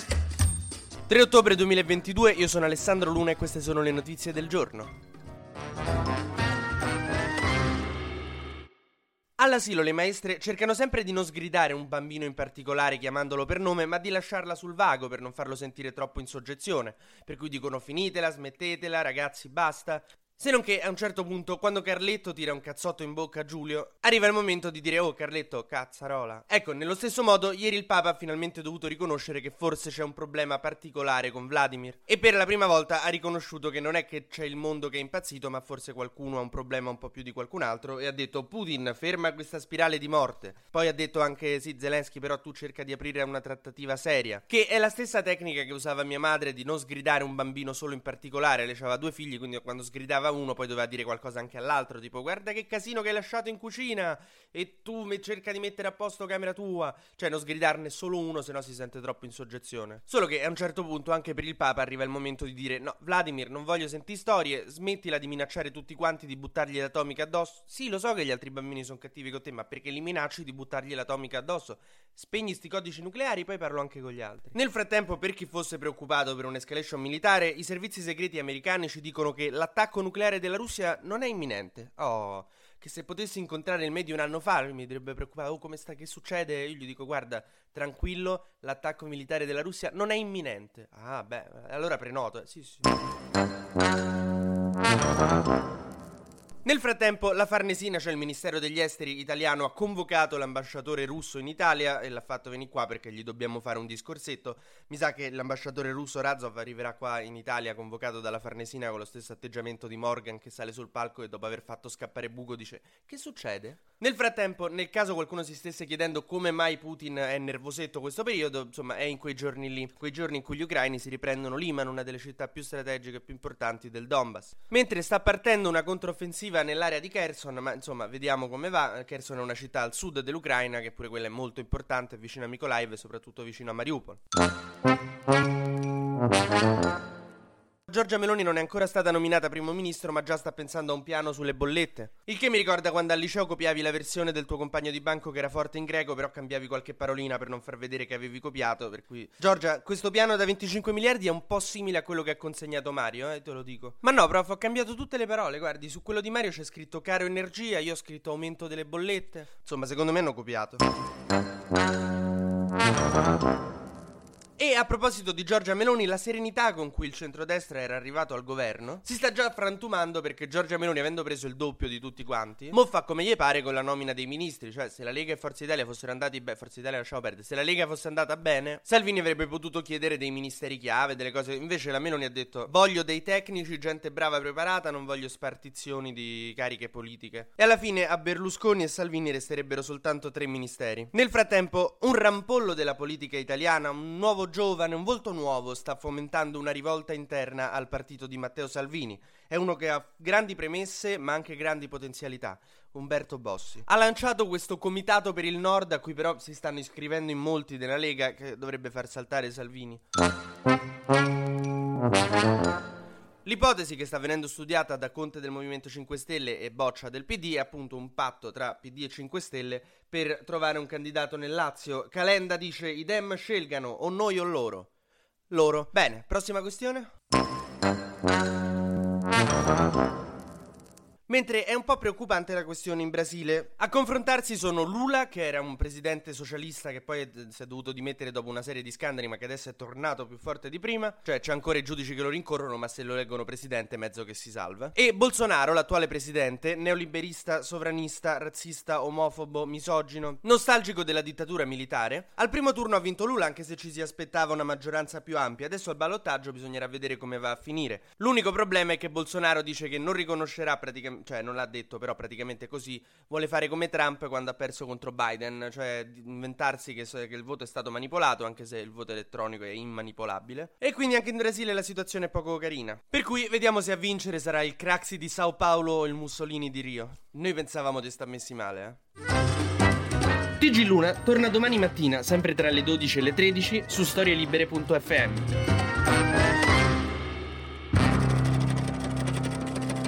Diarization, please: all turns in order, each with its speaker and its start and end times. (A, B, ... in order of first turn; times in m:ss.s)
0:01.1-0:04.9 A
0:09.4-1:32.9 A
1:36.6-2:14.2 A
2:17.9-2:40.8 A
2:44.6-3:30.0 A
3:33.4-3:44.9 A
3:45.5-3:47.1 A
3:51.3-4:39.0 A
4:40.6-4:45.5 A